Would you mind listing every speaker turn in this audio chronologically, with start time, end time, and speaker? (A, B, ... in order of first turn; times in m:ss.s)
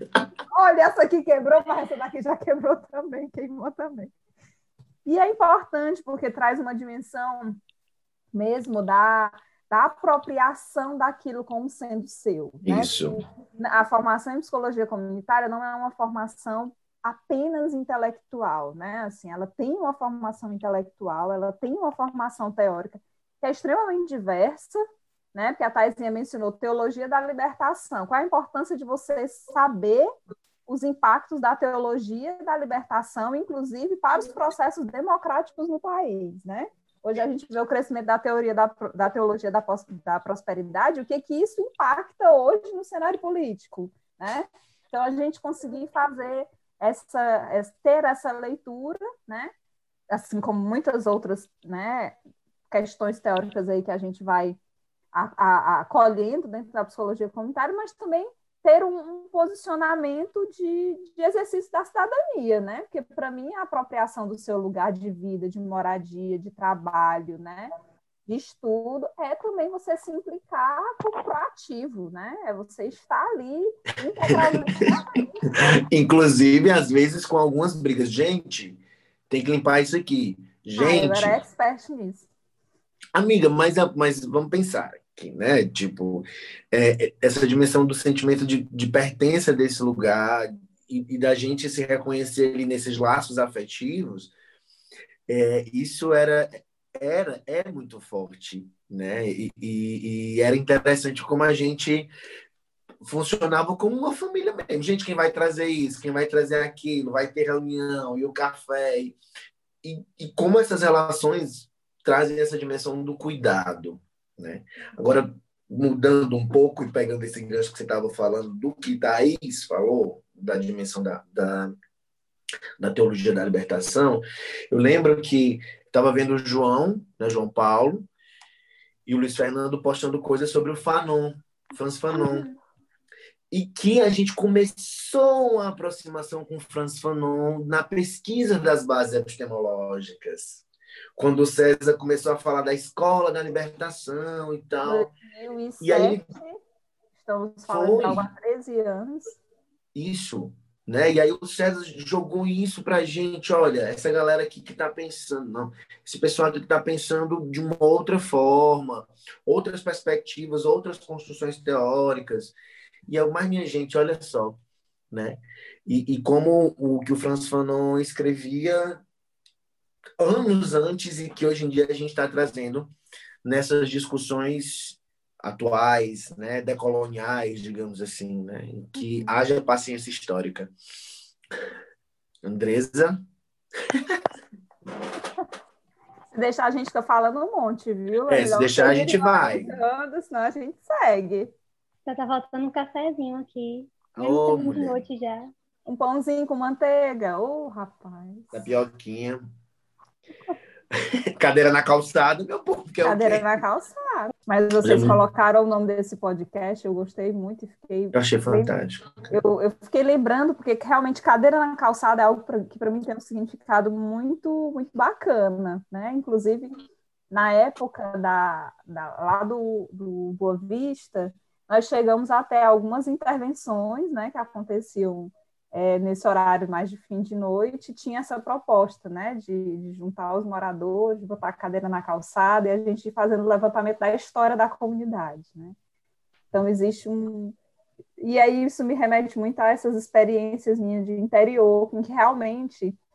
0:00.5-0:04.1 A
0:05.0-0:07.6 A
0:08.3-0:24.8 A
0:12.6-0:13.2 B
0:25.3-0:30.1 A
0:30.7-0:49.5 A
0:50.1-0:52.2 A
0:52.7-0:54.6 A
0:55.1-1:07.7 A
1:08.3-1:15.4 A
1:14.3-1:15.0 B
1:15.6-1:21.4 B
1:20.8-1:22.3 A
1:23.1-1:34.3 B
1:35.3-1:42.1 B
1:43.0-1:49.2 B
1:49.8-2:01.7 B
2:02.8-2:08.1 B
2:09.0-2:12.5 B
2:12.1-2:12.5 A
2:13.5-2:20.6 B
2:21.2-2:25.1 B
2:24.8-2:26.6 A
2:25.8-2:26.3 B
2:27.2-2:29.4 A
2:27.7-2:28.3 B
2:29.9-2:42.6 B
2:43.1-2:44.6 B
2:45.1-2:49.0 B
2:50.2-2:52.9 B
2:53.4-3:00.7 B
2:59.0-2:59.3 A
3:02.4-3:03.2 B
3:06.3-3:11.5 A
3:08.3-3:09.7 B
3:12.0-3:15.5 C
3:14.1-3:15.0 B
3:15.8-3:18.6 A
3:18.5-3:19.4 B
3:21.3-3:23.5 B
3:23.0-3:28.7 A
3:24.8-3:25.2 B
3:28.1-3:29.1 B
3:29.3-3:36.8 A
3:37.3-3:55.8 A
3:56.5-3:57.5 A
3:58.2-4:03.0 A